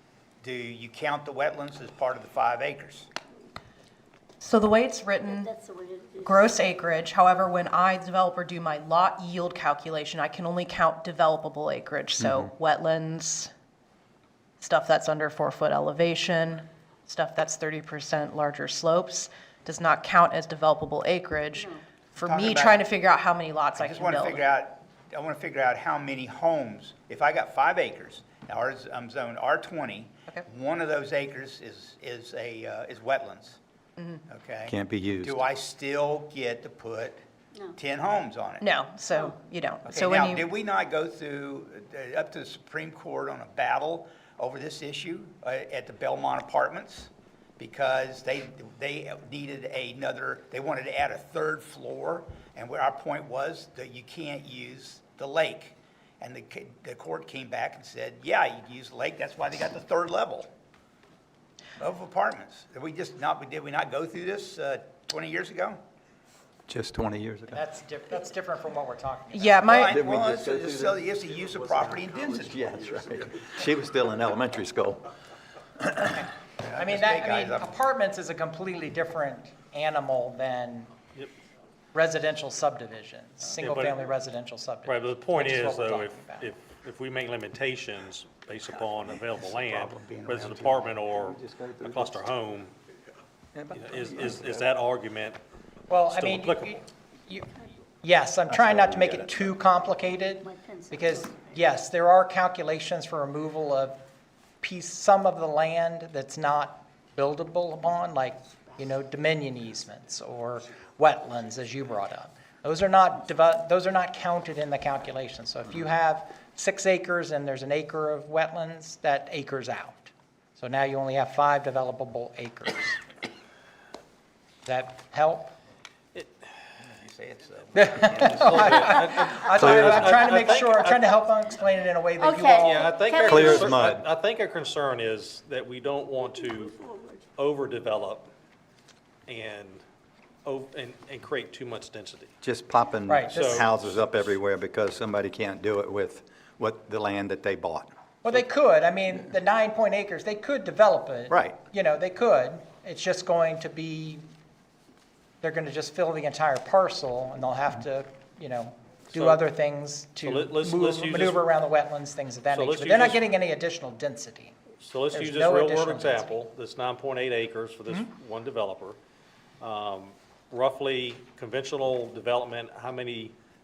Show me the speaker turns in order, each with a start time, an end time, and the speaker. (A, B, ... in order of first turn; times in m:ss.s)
0:00.4-0:03.1 A
0:04.4-0:05.5 B
0:05.2-0:06.6 C
0:06.2-0:13.5 B
0:12.2-0:12.5 D
0:14.6-0:24.4 B
0:22.2-0:22.8 A
0:23.8-0:33.6 A
0:34.3-0:37.2 A
0:34.7-0:35.4 D
0:37.8-0:38.7 A
0:38.6-0:40.5 B
0:39.9-1:00.5 A
1:01.8-1:05.8 A
1:06.7-1:07.6 D
1:07.5-1:09.7 E
1:09.3-1:10.0 B
1:09.6-1:13.0 A
1:09.8-1:11.0 D
1:11.6-1:15.1 D
1:16.1-1:20.9 E
1:16.6-1:17.7 A
1:21.9-1:26.5 E
1:23.4-1:24.1 F
1:24.9-1:32.7 F
1:29.3-1:30.8 A
1:31.1-1:32.3 D
1:33.6-1:34.6 D
1:33.7-1:35.4 F
1:35.9-1:37.5 E
1:36.1-1:36.8 F
1:38.0-1:44.0 E
1:38.5-1:39.6 D
1:40.4-1:41.6 C
1:44.6-2:03.0 E
2:04.6-2:05.6 E
2:06.9-2:09.0 A
2:07.7-2:12.9 E
2:08.0-2:11.2 F
2:09.6-2:10.2 D
2:12.2-2:13.8 C
2:12.6-2:16.8 F
2:13.2-2:14.1 D
2:16.3-2:17.2 C
2:17.4-2:18.3 F
2:19.3-2:19.8 F
2:20.4-2:22.3 F
2:22.4-2:27.9 D
2:23.1-2:23.7 E
2:23.3-2:24.3 F
2:28.2-2:34.2 E
2:31.3-2:31.6 D
2:35.4-2:44.6 E
2:39.1-2:39.4 F
2:40.2-2:41.5 F
2:42.5-2:43.3 F
2:44.8-2:49.0 F
2:45.1-2:46.4 E
2:49.6-2:53.4 F